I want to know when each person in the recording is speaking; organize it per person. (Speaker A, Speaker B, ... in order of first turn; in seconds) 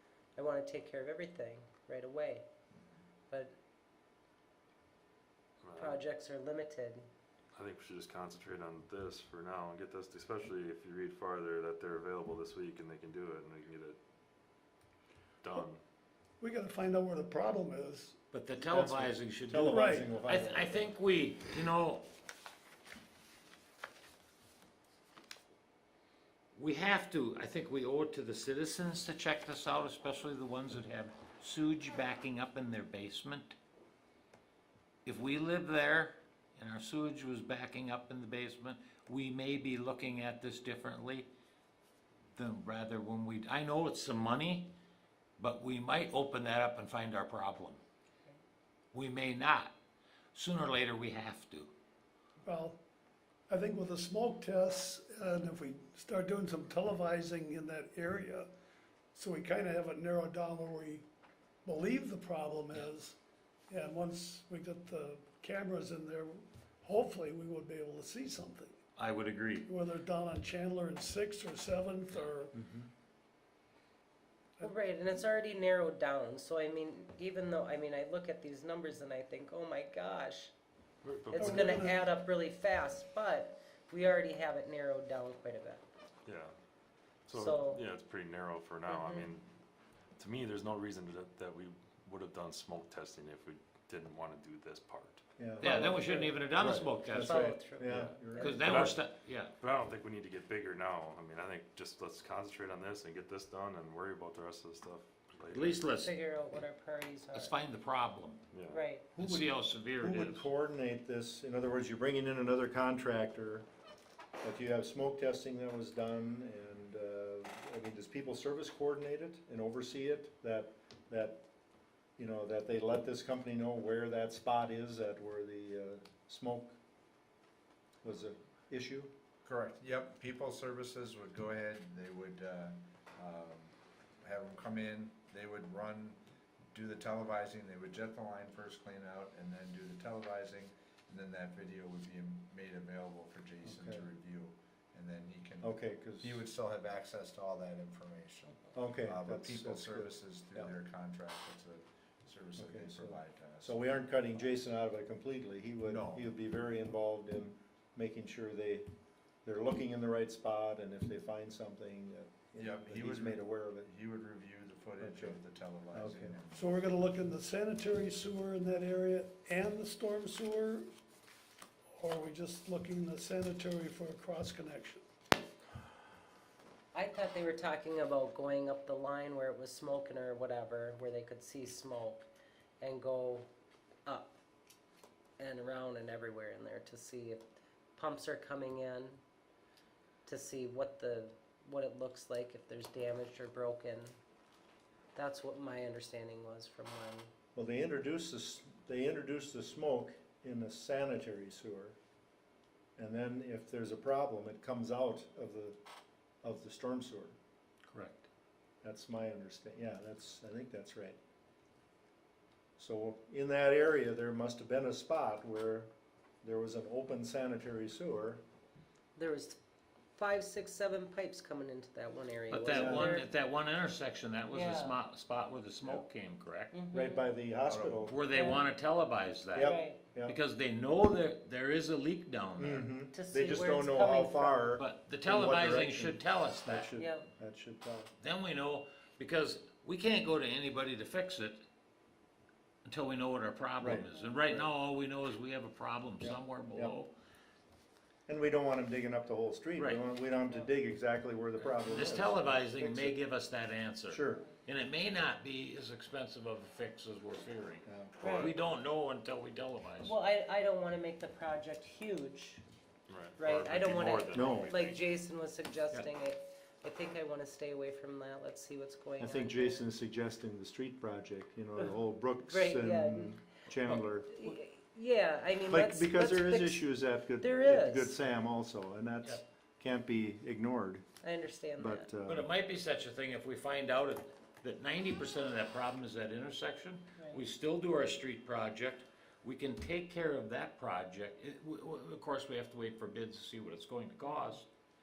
Speaker A: 0.3-2.4, 3.3-3.5, 5.8-7.0, 74.6-80.5, 81.3-85.8, 87.3-87.8, 88.9-89.3, 95.6-96.4, 97.2-98.9, 106.0-107.5, 108.7-109.1, 176.9-182.2, 182.8-183.5, 184.1-184.3, 185.4-187.4, 187.9-189.2, 190.2-194.1, 195.1-197.3, 219.2-219.6, 220.2-223.3, 224.5-225.0, 226.7-227.3, 228.3-228.7, 229.6-230.0, 233.1-234.7, 236.9-237.3, 260.0-262.6, 263.4-269.9, 272.4-273.4, 274.3-276.8, 277.4-278.1, 281.2-282.1, 287.2-287.4, 294.3-294.5
Speaker B: 5.6-6.0, 7.5-14.0, 15.4-15.8, 81.0-81.6, 86.2-86.5, 87.3-89.5, 90.2-95.2, 98.6-99.0, 99.6-105.9, 108.5-108.8, 258.2-258.5, 263.1-264.9
Speaker C: 16.4-18.1, 19.7-20.1, 52.4-52.8, 53.5-58.5, 59.1-61.0, 61.6-63.1, 63.7-68.8, 69.6-72.5, 81.4-82.0, 166.5-170.9, 172.0-175.0
Speaker D: 18.3-22.1, 26.5-33.5, 35.0-41.3, 42.4-44.7, 45.4-47.8, 48.9-49.7, 50.3-51.7, 69.0-69.7, 95.6-99.5, 105.5-106.1, 107.3-108.4, 109.2-110.5, 207.9-208.2, 222.5-226.7, 228.0-232.9, 234.8-236.9, 238.2-241.6, 242.8-247.1, 249.8-250.0, 251.6-260.1, 282.2-294.6
Speaker E: 18.6-20.9, 72.5-72.9, 95.4-98.9, 109.1-113.7, 114.4-121.4, 122.2-126.7, 128.0-129.1, 143.6-144.0, 145.6-146.4, 148.7-150.7, 152.6-158.9, 159.4-163.9, 165.0-166.3, 197.5-201.9, 203.0-205.8, 206.4-207.3, 208.8-211.2, 212.8-215.9, 216.4-218.4, 222.7-223.2, 226.9-228.2, 229.5-230.4, 232.6-238.1, 243.8-244.7, 246.2-246.9, 248.3-253.2, 254.1-254.5, 257.8-258.1, 264.3-264.7, 269.2-274.4, 275.7-281.1, 281.8-282.5
Speaker F: 129.4-136.2, 136.7-153.8, 155.9-156.2, 162.6-166.6, 227.7-228.1